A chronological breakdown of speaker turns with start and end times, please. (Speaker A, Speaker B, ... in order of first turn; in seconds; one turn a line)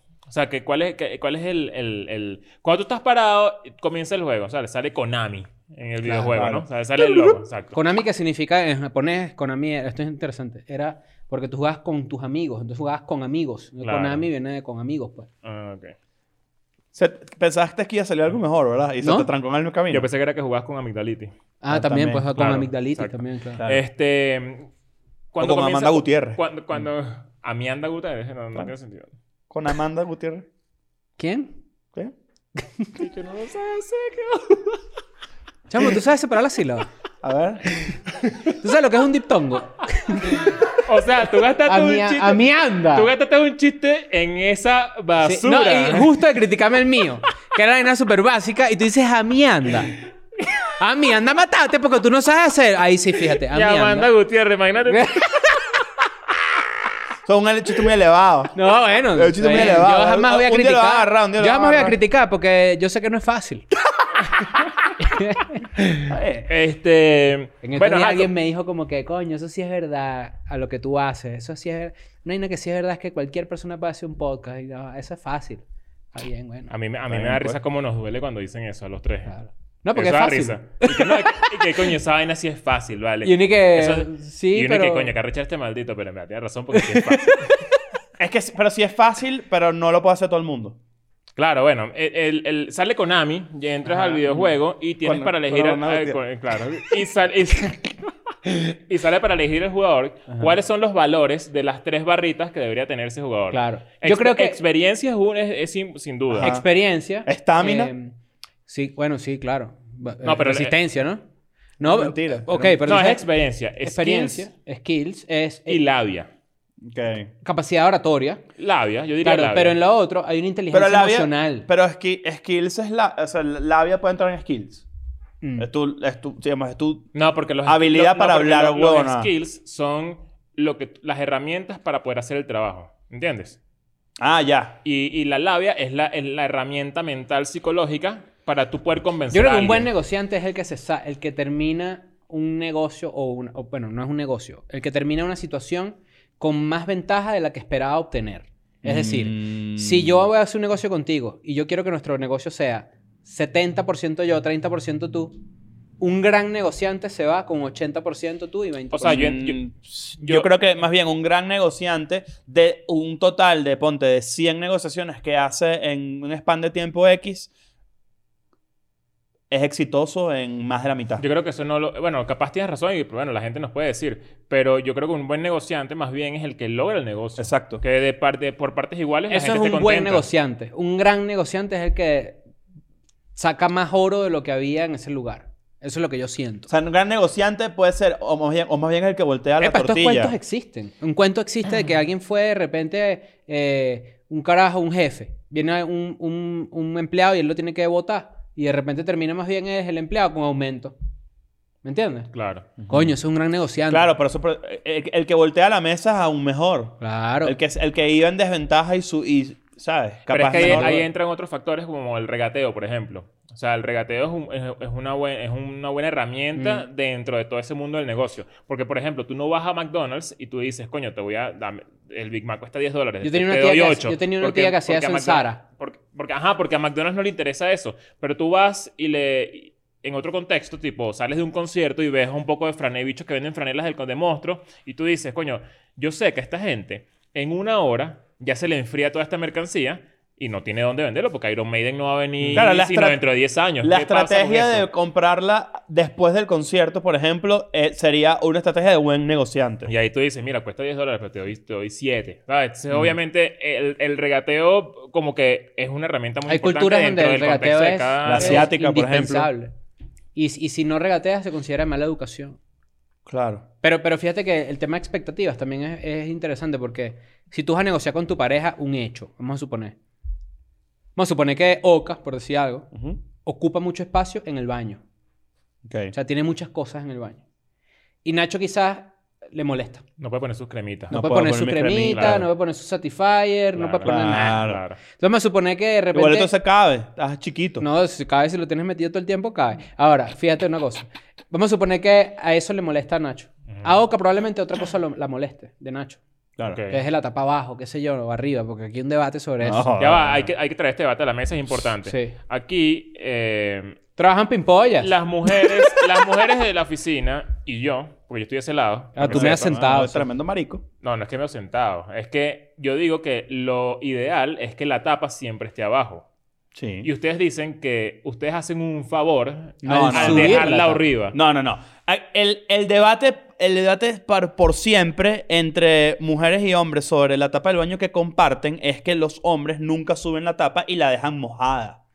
Speaker A: 0.3-7.8
Speaker B: 6.3-6.7
Speaker C: 7.7-15.3
Speaker A: 13.8-14.3
Speaker A: 15.4-15.9
Speaker B: 16.9-20.1
Speaker C: 19.0-19.3
Speaker A: 19.9-21.3
Speaker C: 21.6-23.6
Speaker B: 21.7-22.3
Speaker A: 22.4-24.7
Speaker B: 23.6-23.8
Speaker A: 25.3-29.1
Speaker B: 25.4-26.4
Speaker B: 29.5-30.5
Speaker C: 31.2-31.5
Speaker A: 33.0-34.8
Speaker C: 35.7-36.9
Speaker B: 37.2-37.7
Speaker C: 38.4-40.7
Speaker A: 40.3-46.1
Speaker C: 41.7-43.1
Speaker C: 45.2-50.0
Speaker C: 50.8-54.1
Speaker A: 53.5-55.2
Speaker C: 54.9-55.7
Speaker B: 57.3-58.6
Speaker C: 58.5-63.7
Speaker B: 59.1-62.0
Speaker C: 65.0-65.7
Speaker B: 66.1-66.5
Speaker A: 66.5-68.3
Speaker C: 67.6-75.6
Speaker C: 76.1-76.7
Speaker A: 76.7-79.3
Speaker B: 77.1-77.6
Speaker C: 79.3-81.9
Speaker A: 80.0-87.5
Speaker C: 83.2-85.1
Speaker C: 86.7-87.5
Speaker B: 88.2-90.8
Speaker A: 91.4-97.9
Speaker B: 95.0-96.2
Speaker A: 98.5-106.6
Speaker C: 103.5-104.6
Speaker B: 106.3-106.7
Speaker C: 106.4-108.1
Speaker B: 107.2-107.9
Speaker C: 108.7-111.2
Speaker A: 110.2-110.7
Speaker C: 111.8-113.3
Speaker B: 111.8-112.9
Speaker A: 112.8-114.5
Speaker C: 113.8-115.8
Speaker A: 115.7-116.3
Speaker B: 116.8-117.3
Speaker C: 117.4-118.4
Speaker A: 118.6-119.8
Speaker C: 119.2-121.7
Speaker B: 120.7-124.8
Speaker C: 125.4-125.7
Speaker B: 125.6-127.1
Speaker A: 127.1-133.6
Speaker B: 127.7-129.3
Speaker B: 134.2-134.8
Speaker A: 134.8-139.9
Speaker C: 139.3-155.4
Speaker B: 148.8-150.3
Speaker C: 156.0-159.3
Speaker A: 158.9-159.6
Speaker B: 159.1-167.5
Speaker A: 160.2-160.5
Speaker B: 169.5-171.2
Speaker A: 171.2-180.2
Speaker B: 177.4-177.8
Speaker C: 179.3-182.4
Speaker C: 183.4-186.7
Speaker B: 186.7-190.3
Speaker C: 189.6-200.9
Speaker C: 201.8-202.3
Speaker A: 202.3-202.7
Speaker B: 202.8-203.1
Speaker C: 202.9-204.1
Speaker B: 203.9-211.0
Speaker C: 207.0-207.6
Speaker A: 210.3-244.9
Speaker C: 210.5-211.0
Speaker C: 216.6-216.8
Speaker C: 223.2-225.6
Speaker B: 242.5-243.2
Speaker B: 243.8-249.9
Speaker A: 249.9-258.7
Speaker C: 256.5-259.7
Speaker B: 258.2-259.5
Speaker C: 260.4-262.6
Speaker B: 263.3-263.6
Speaker C: 263.8-269.9
Speaker C: 271.2-272.9
Speaker B: 272.9-273.2
Speaker C: 273.4-275.0
Speaker B: 275.9-276.1
Speaker C: 276.1-277.4
Speaker C: 278.2-280.0
Speaker A: 280.2-281.1
Speaker C: 281.1-286.5
Speaker B: 281.1-282.5
Speaker A: 282.1-282.4
Speaker A: 283.7-285.0
Speaker B: 284.1-284.8
Speaker B: 286.1-287.9
Speaker C: 287.8-296.2
Speaker A: 296.7-297.0
Speaker C: 296.9-299.9
Speaker B: 299.6-300.5
Speaker A: 300.0-304.0
Speaker C: 302.1-302.3
Speaker C: 304.2-305.2
Speaker A: 305.0-309.6
Speaker C: 309.1-310.3
Speaker B: 309.2-310.8
Speaker A: 311.0-316.3
Speaker B: 316.8-317.1
Speaker A: 317.0-321.4
Speaker C: 319.8-321.0
Speaker B: 319.9-320.7
Speaker B: 321.3-332.0